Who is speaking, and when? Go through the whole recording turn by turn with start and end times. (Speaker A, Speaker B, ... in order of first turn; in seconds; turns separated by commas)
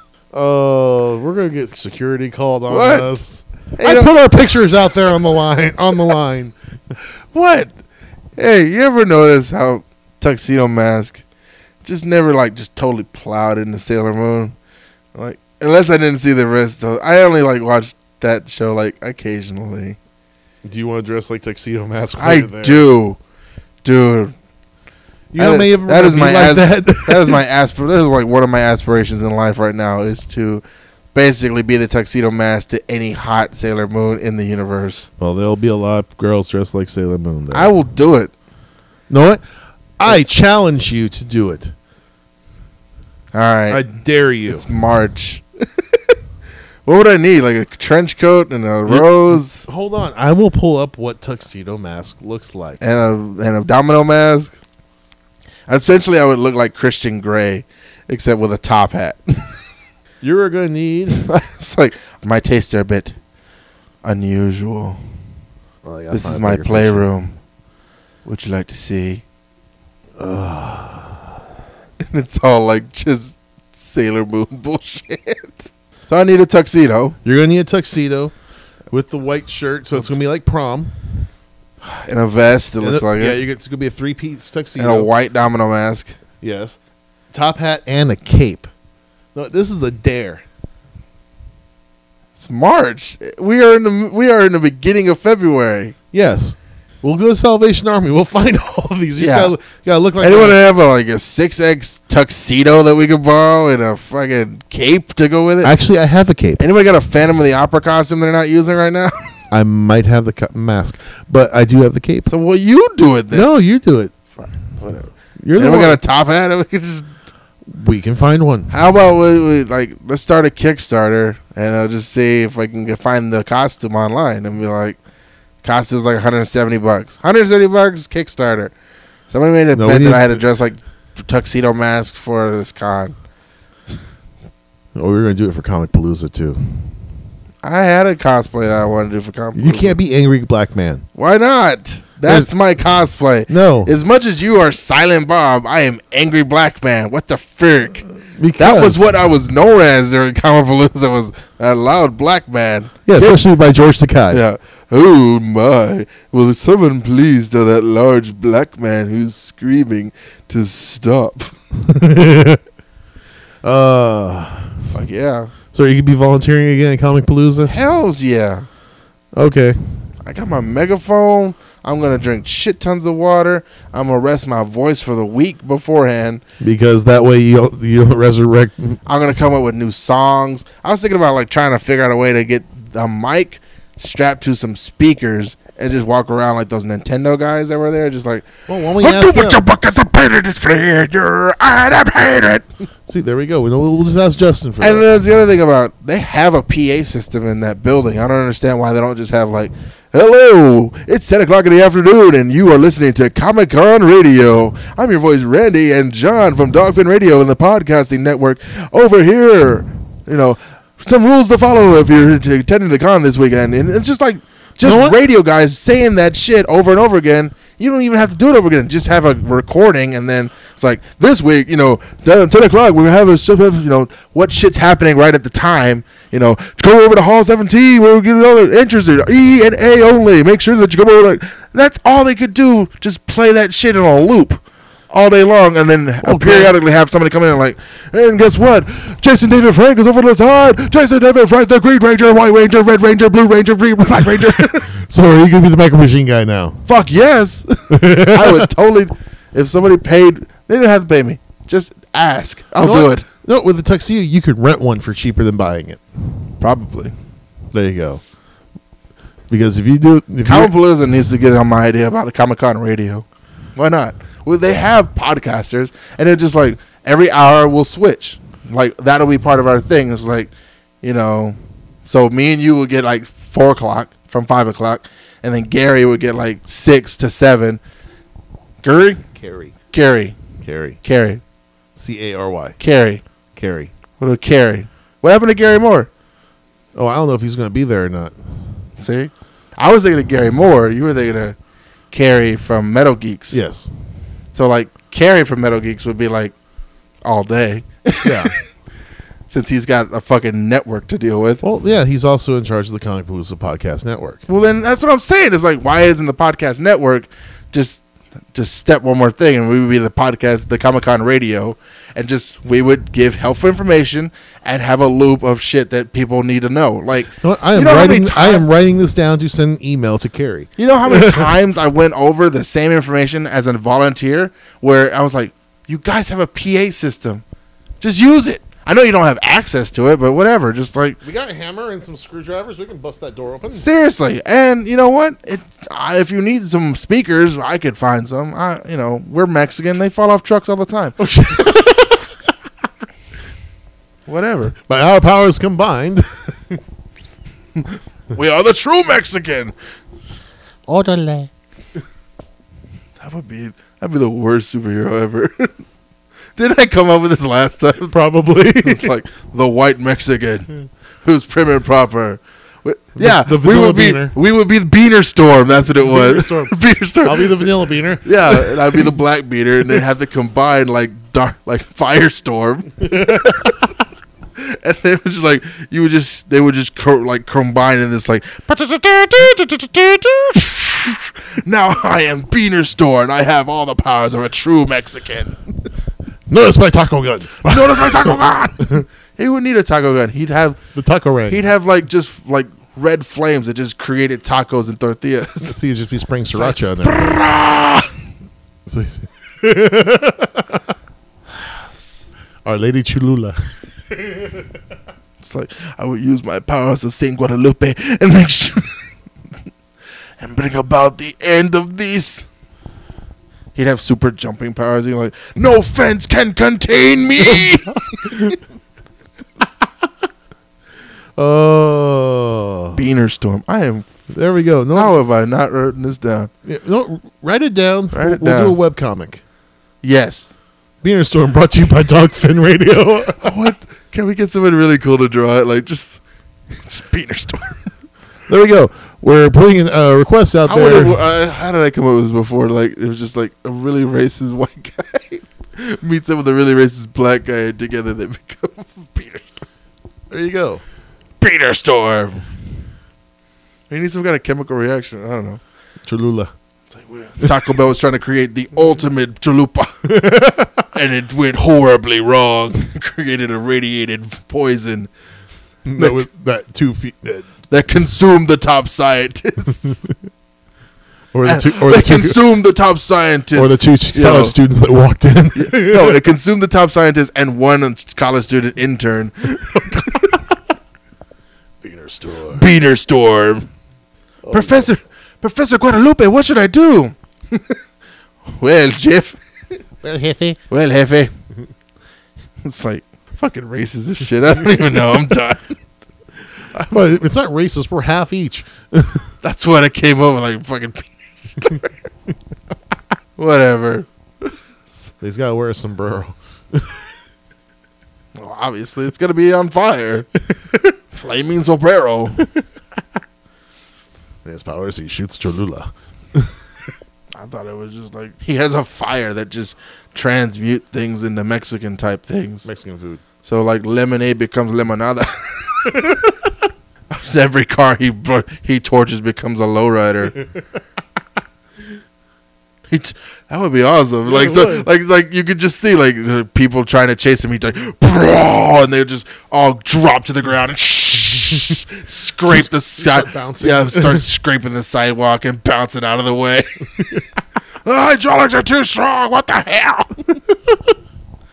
Speaker A: 0.3-6.5, Speaker B: 2.7-3.1, Speaker B: 3.8-4.1, Speaker B: 7.3-7.7, Speaker B: 8.3-11.2, Speaker B: 11.8-14.5, Speaker B: 15.1-20.0, Speaker A: 20.6-22.9, Speaker B: 22.2-23.2, Speaker B: 23.8-24.3, Speaker A: 25.3-27.4, Speaker B: 25.4-35.1, Speaker A: 35.2-37.7, Speaker B: 37.5-38.3, Speaker A: 39.1-39.4, Speaker A: 40.0-41.7, Speaker B: 43.3-43.8, Speaker A: 43.7-44.6, Speaker B: 44.5-46.1, Speaker B: 46.8-49.6, Speaker A: 48.9-52.8, Speaker B: 52.8-54.5, Speaker B: 55.7-59.6, Speaker A: 60.2-61.2, Speaker B: 61.1-63.1, Speaker B: 64.0-65.0, Speaker A: 65.8-67.1, Speaker B: 66.1-67.3, Speaker B: 68.2-69.2, Speaker A: 70.2-71.3, Speaker B: 72.0-77.2, Speaker A: 77.2-78.3, Speaker A: 78.9-80.9, Speaker B: 81.8-83.4, Speaker A: 82.8-85.1, Speaker B: 84.8-86.2, Speaker A: 86.4-86.8, Speaker A: 87.3-88.7, Speaker A: 89.3-90.4, Speaker B: 92.3-95.9, Speaker A: 96.1-100.6, Speaker B: 99.2-99.5, Speaker B: 100.2-105.8, Speaker A: 105.6-106.6, Speaker B: 106.6-109.4, Speaker A: 109.5-112.3, Speaker B: 112.3-113.5, Speaker A: 113.3-114.1, Speaker B: 114.3-117.1, Speaker A: 115.4-116.0, Speaker A: 117.7-118.7, Speaker B: 118.7-125.0, Speaker B: 125.6-128.7, Speaker B: 129.3-133.2, Speaker A: 129.7-130.4, Speaker A: 134.9-136.9, Speaker B: 137.6-140.0, Speaker A: 139.5-141.1, Speaker B: 141.1-148.1, Speaker A: 142.2-142.5, Speaker A: 143.5-143.9, Speaker A: 148.3-149.1, Speaker B: 148.6-153.4, Speaker A: 153.1-154.4, Speaker B: 154.3-161.6, Speaker A: 161.8-162.6, Speaker A: 163.6-164.8, Speaker B: 164.9-165.5, Speaker A: 165.7-167.7, Speaker B: 167.7-168.7, Speaker A: 169.3-170.0, Speaker B: 170.2-176.4, Speaker A: 176.6-179.0, Speaker B: 179.1-192.7, Speaker A: 188.7-189.6, Speaker A: 193.1-195.1, Speaker B: 194.8-244.9, Speaker A: 214.8-215.2, Speaker A: 236.2-236.7, Speaker A: 244.4-246.8, Speaker B: 246.8-253.2, Speaker A: 247.9-248.7, Speaker A: 252.8-256.0, Speaker B: 256.6-257.1, Speaker A: 257.7-258.2, Speaker A: 259.5-260.7, Speaker B: 260.4-270.5, Speaker B: 271.0-277.8, Speaker B: 278.8-279.2, Speaker A: 279.3-279.7, Speaker B: 279.9-280.4, Speaker A: 280.6-281.0, Speaker B: 281.0-281.4, Speaker A: 281.9-282.8, Speaker B: 282.8-283.2, Speaker A: 283.5-283.9, Speaker B: 284.2-286.1, Speaker A: 286.9-288.3, Speaker B: 289.0-291.6, Speaker B: 292.1-293.6, Speaker A: 293.5-293.9, Speaker B: 294.5-296.5, Speaker B: 297.2-298.5, Speaker A: 298.2-298.6, Speaker B: 299.5-301.6, Speaker A: 301.6-304.4, Speaker B: 304.5-308.0, Speaker B: 308.5-318.6, Speaker A: 317.4-321.5, Speaker B: 320.8-327.4, Speaker B: 328.0-331.2, Speaker A: 331.2-333.8, Speaker B: 333.7-341.2, Speaker A: 341.2-342.3, Speaker B: 344.2-344.7, Speaker A: 344.9-346.8, Speaker B: 347.8-349.7, Speaker A: 350.9-351.5, Speaker B: 353.2-355.8, Speaker B: 356.6-358.2, Speaker A: 358.1-359.1, Speaker B: 358.8-360.7, Speaker B: 361.2-373.9, Speaker A: 363.1-364.3, Speaker A: 366.0-369.1, Speaker B: 374.6-385.9, Speaker A: 386.5-389.0, Speaker B: 387.6-390.8, Speaker A: 390.9-391.6, Speaker B: 391.5-395.8, Speaker A: 395.6-397.4, Speaker B: 396.5-398.1, Speaker A: 398.9-400.8, Speaker B: 401.9-402.2, Speaker A: 402.6-404.6, Speaker B: 405.4-409.1, Speaker B: 410.4-412.5, Speaker B: 413.7-418.5, Speaker A: 417.4-418.6, Speaker A: 421.4-423.0, Speaker B: 422.9-424.2, Speaker A: 424.3-425.2, Speaker B: 424.9-426.5, Speaker A: 426.6-429.4, Speaker B: 428.1-428.8, Speaker B: 430.0-430.5, Speaker A: 431.0-433.5, Speaker B: 433.4-436.2, Speaker B: 436.7-437.9, Speaker A: 438.5-441.2, Speaker B: 440.6-449.4, Speaker A: 450.3-450.8, Speaker B: 451.4-452.4, Speaker B: 453.9-455.6, Speaker A: 456.0-456.5, Speaker B: 456.9-465.1, Speaker A: 460.1-460.8, Speaker A: 465.9-467.5, Speaker B: 466.0-466.2, Speaker B: 467.7-470.0, Speaker A: 471.3-472.4, Speaker B: 471.4-474.6, Speaker A: 473.5-476.2, Speaker B: 475.6-480.4, Speaker A: 479.7-480.2, Speaker A: 481.8-482.6, Speaker B: 482.5-483.7, Speaker A: 484.4-484.9, Speaker B: 484.5-487.8, Speaker B: 488.5-489.8, Speaker A: 490.0-490.6, Speaker B: 490.7-491.3, Speaker B: 492.6-495.8, Speaker A: 496.8-499.3, Speaker B: 499.4-501.9, Speaker B: 503.4-504.5, Speaker A: 505.2-506.9, Speaker B: 508.4-510.3, Speaker B: 511.1-512.5, Speaker A: 514.4-516.5, Speaker B: 517.3-522.7, Speaker A: 522.6-523.2, Speaker B: 523.4-526.3, Speaker B: 527.1-530.4, Speaker B: 532.9-547.2, Speaker A: 534.3-534.9, Speaker A: 542.5-544.2, Speaker B: 547.8-550.4